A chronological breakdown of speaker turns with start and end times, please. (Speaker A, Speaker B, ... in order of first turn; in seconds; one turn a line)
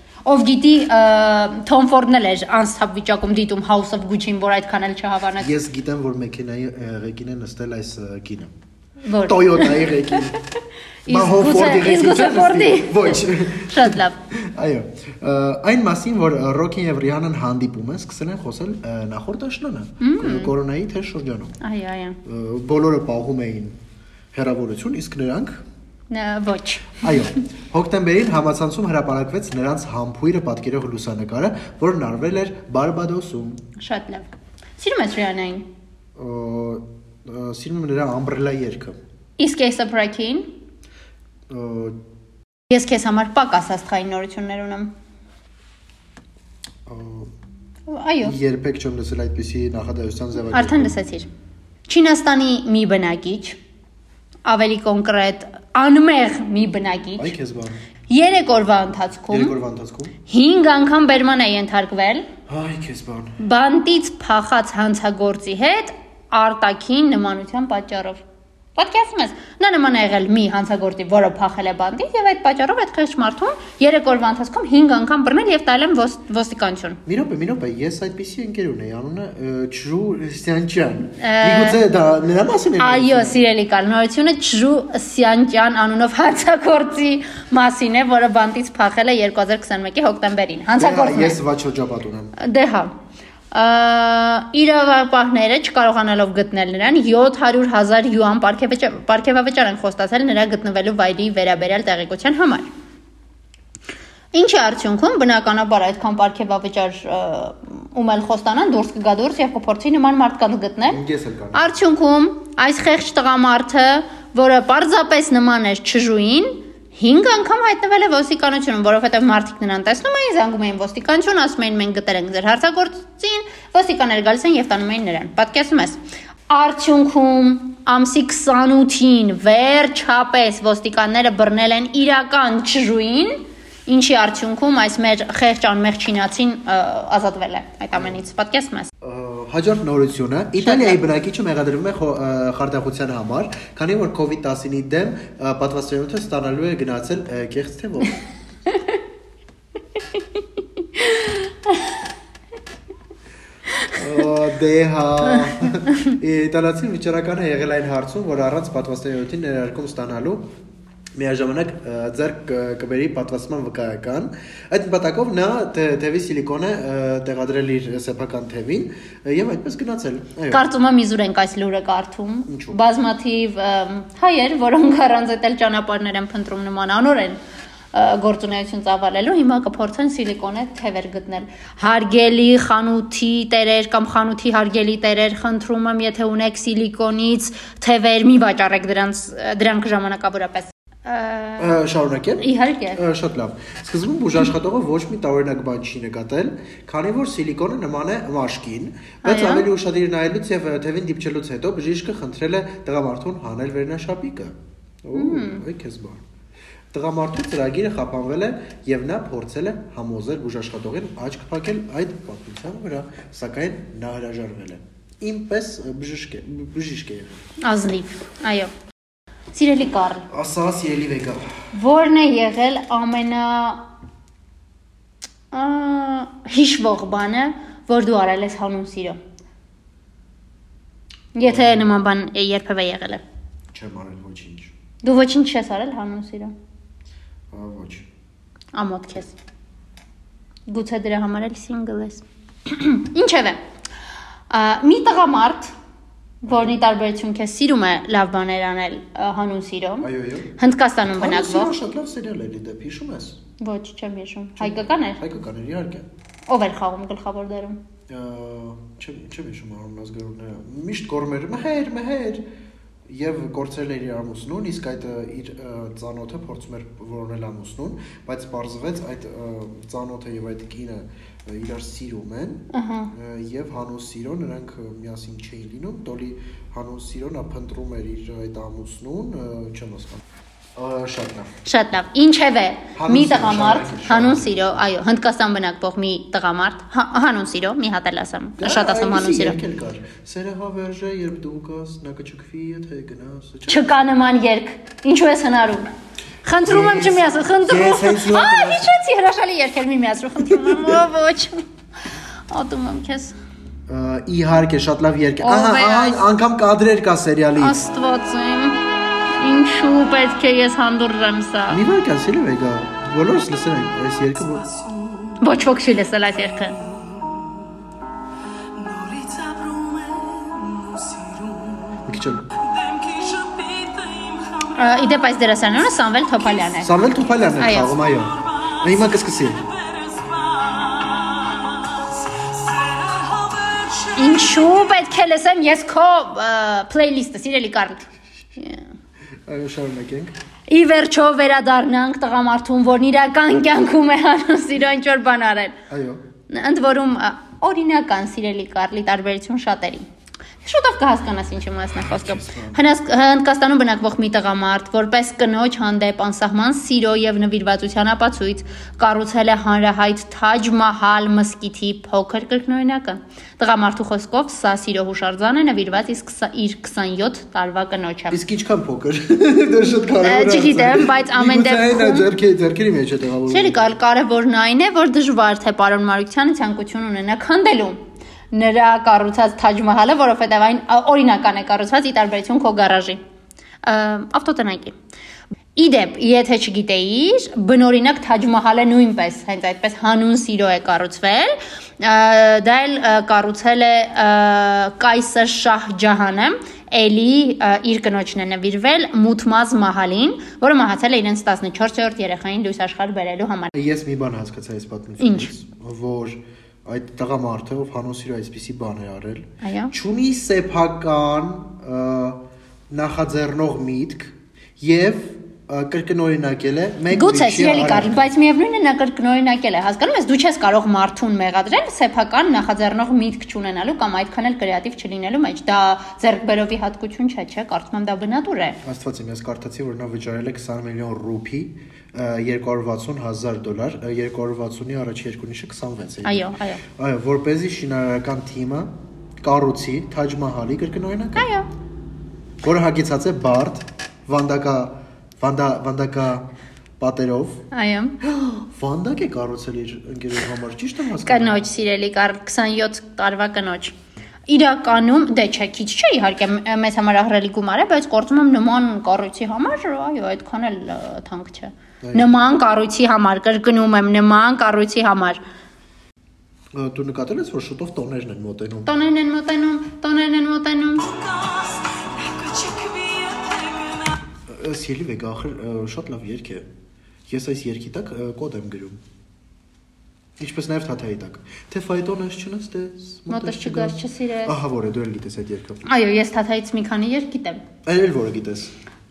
Speaker A: 0.2-5.5
Speaker B: 5.4-8.5
Speaker A: 9.0-10.4
Speaker B: 9.2-10.4
Speaker A: 11.1-14.2
Speaker B: 11.1-21.6
Speaker A: 20.0-20.5
Speaker A: 21.6-22.2
Speaker B: 22.2-23.8
Speaker B: 24.3-25.6
Speaker A: 26.1-27.3
Speaker B: 27.0-33.6
Speaker A: 33.8-34.3
Speaker A: 34.8-35.7
Speaker B: 36.2-39.0
Speaker A: 39.4-40.5
Speaker B: 41.5-42.0
Speaker A: 42.7-44.9
Speaker B: 46.9-47.3
Speaker A: 47.9-48.4
Speaker B: 48.2-51.0
Speaker A: 50.5-51.3
Speaker A: 51.9-53.6
Speaker A: 54.5-57.3
Speaker B: 57.2-57.8
Speaker A: 58.1-59.5
Speaker B: 59.3-60.1
Speaker A: 60.3-62.3
Speaker B: 62.5-63.4
Speaker A: 63.4-68.2
Speaker A: 68.8-77.0
Speaker B: 77.1-83.4
Speaker A: 81.2-81.8
Speaker A: 82.8-91.4
Speaker B: 90.8-92.4
Speaker A: 92.4-92.9
Speaker A: 93.5-102.7
Speaker A: 104.3-111.0
Speaker B: 110.9-111.8
Speaker A: 111.5-138.9
Speaker B: 139.0-148.2
Speaker A: 140.6-141.0
Speaker A: 150.9-151.9
Speaker B: 153.8-160.4
Speaker B: 161.2-170.7
Speaker A: 170.5-177.4
Speaker B: 172.5-172.8
Speaker A: 177.9-191.8
Speaker B: 191.6-206.2
Speaker A: 192.4-193.0
Speaker A: 199.2-199.7
Speaker A: 205.1-205.6
Speaker B: 206.9-217.4
Speaker A: 217.6-218.7
Speaker A: 219.5-220.3
Speaker B: 220.3-221.4
Speaker A: 221.7-223.8
Speaker A: 225.5-229.2
Speaker A: 231.3-233.2
Speaker B: 231.4-231.9
Speaker B: 233.7-234.7
Speaker A: 235.0-236.5
Speaker B: 237.5-238.1
Speaker A: 238.7-239.4
Speaker A: 240.7-243.6
Speaker A: 244.5-245.7
Speaker A: 246.4-250.1
Speaker B: 246.5-246.8
Speaker B: 250.0-250.5
Speaker A: 250.6-251.7
Speaker B: 251.1-253.4
Speaker A: 253.6-255.2
Speaker B: 254.6-256.1
Speaker A: 256.5-257.8
Speaker B: 258.1-262.4
Speaker B: 263.1-280.2
Speaker A: 272.7-273.1
Speaker B: 280.8-281.6
Speaker A: 281.6-289.6
Speaker B: 282.9-284.9
Speaker B: 288.6-294.1
Speaker A: 293.7-295.9
Speaker A: 296.4-301.6
Speaker B: 296.6-298.9
Speaker A: 302.5-303.4
Speaker B: 303.9-307.8
Speaker A: 305.4-306.2
Speaker A: 307.6-311.8
Speaker B: 311.7-314.8
Speaker A: 315.4-316.8
Speaker C: 319.0-321.8
Speaker B: 322.0-322.5
Speaker C: 322.8-324.6
Speaker A: 324.7-326.9
Speaker B: 326.8-329.7
Speaker A: 327.6-328.0
Speaker C: 330.2-331.2
Speaker C: 332.7-334.0
Speaker A: 334.1-338.1
Speaker B: 339.5-340.3
Speaker A: 340.7-345.8
Speaker B: 345.9-346.2
Speaker A: 346.5-350.1
Speaker A: 350.6-368.4
Speaker B: 352.0-352.8
Speaker B: 368.3-373.9
Speaker A: 370.2-372.3
Speaker A: 373.5-378.0
Speaker A: 378.5-383.2
Speaker A: 383.8-385.0
Speaker A: 385.8-403.7
Speaker B: 403.7-418.3
Speaker A: 405.2-405.5
Speaker A: 409.6-409.9
Speaker A: 417.1-428.8
Speaker B: 428.8-441.5
Speaker A: 436.2-436.8
Speaker A: 441.4-441.7
Speaker B: 442.6-446.5
Speaker B: 447.0-447.6
Speaker A: 447.7-448.2
Speaker B: 448.2-451.6
Speaker A: 451.2-453.9
Speaker A: 454.5-465.4
Speaker B: 462.0-462.3
Speaker B: 466.7-469.0
Speaker A: 468.9-471.3
Speaker A: 472.0-472.3
Speaker C: 472.5-473.3
Speaker A: 473.3-473.9
Speaker B: 474.5-476.7
Speaker B: 477.3-479.0
Speaker B: 480.4-485.9
Speaker A: 483.3-484.6
Speaker A: 485.9-487.6
Speaker B: 487.9-488.7